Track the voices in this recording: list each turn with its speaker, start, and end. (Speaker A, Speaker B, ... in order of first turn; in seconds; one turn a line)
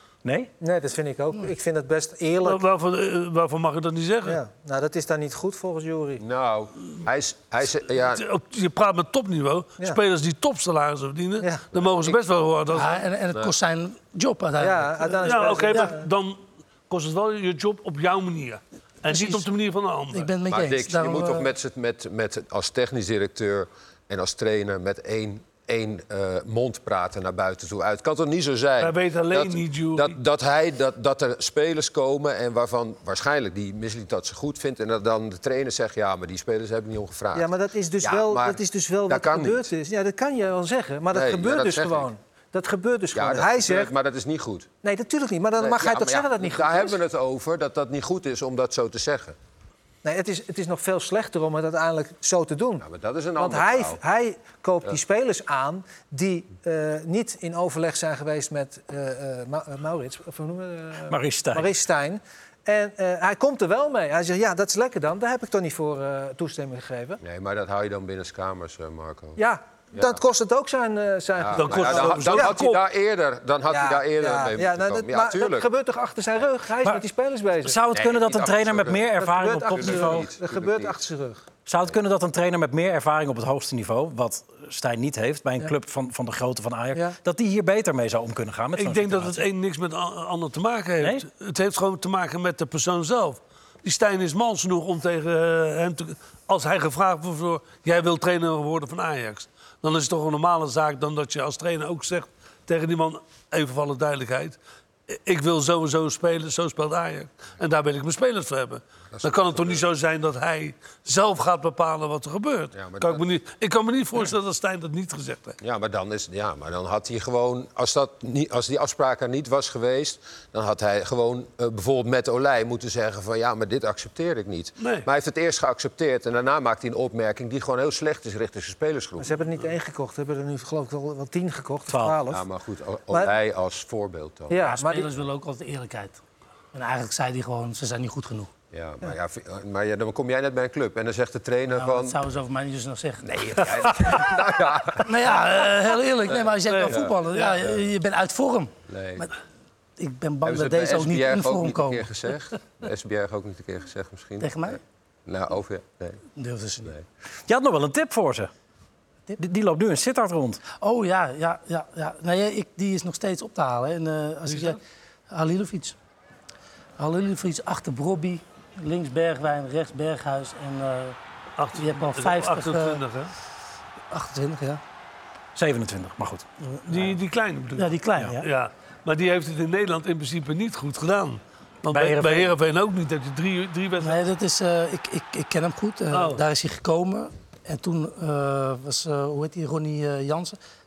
Speaker A: 0.2-0.5
Speaker B: 0.6-2.6
Speaker C: 2.4-4.4
Speaker B: 4.2-6.2
Speaker D: 6.2-8.2
Speaker C: 8.1-13.0
Speaker D: 11.8-12.1
Speaker E: 12.7-15.9
Speaker B: 14.6-16.1
Speaker C: 15.2-20.3
Speaker E: 19.1-19.5
Speaker E: 20.1-21.5
Speaker D: 20.5-37.5
Speaker C: 28.8-30.2
Speaker B: 37.3-43.9
Speaker D: 38.0-39.7
Speaker D: 41.1-42.1
Speaker D: 43.1-44.7
Speaker B: 44.8-47.0
Speaker D: 45.6-49.4
Speaker B: 50.0-52.8
Speaker D: 52.8-54.0
Speaker B: 53.4-67.2
Speaker A: 61.1-61.7
Speaker D: 67.2-69.4
Speaker B: 69.3-72.7
Speaker D: 71.3-75.7
Speaker C: 71.5-72.8
Speaker B: 73.7-77.8
Speaker A: 77.6-80.3
Speaker D: 77.9-80.9
Speaker B: 79.2-81.4
Speaker A: 81.7-89.4
Speaker C: 88.8-104.6
Speaker C: 105.1-115.6
Speaker D: 109.1-109.8
Speaker D: 112.7-113.2
Speaker D: 115.6-129.4
Speaker C: 124.8-125.1
Speaker B: 129.2-132.4
Speaker A: 131.9-132.2
Speaker D: 132.3-134.7
Speaker B: 134.5-135.1
Speaker E: 134.6-136.2
Speaker E: 136.7-138.5
Speaker D: 138.7-142.2
Speaker E: 141.7-144.2
Speaker D: 143.2-145.4
Speaker E: 144.9-149.3
Speaker D: 146.3-147.8
Speaker C: 146.7-147.5
Speaker D: 148.9-149.3
Speaker E: 150.0-152.1
Speaker D: 150.4-156.2
Speaker E: 154.4-154.8
Speaker E: 156.3-156.9
Speaker A: 157.5-158.5
Speaker A: 159.4-160.6
Speaker E: 160.8-164.8
Speaker C: 164.5-164.8
Speaker E: 165.3-165.9
Speaker E: 167.0-171.2
Speaker C: 171.6-173.3
Speaker E: 171.7-173.0
Speaker E: 174.1-174.8
Speaker A: 175.6-176.4
Speaker E: 176.6-177.2
Speaker C: 176.9-184.2
Speaker E: 177.8-178.5
Speaker A: 181.9-182.5
Speaker E: 184.0-190.6
Speaker C: 186.1-186.4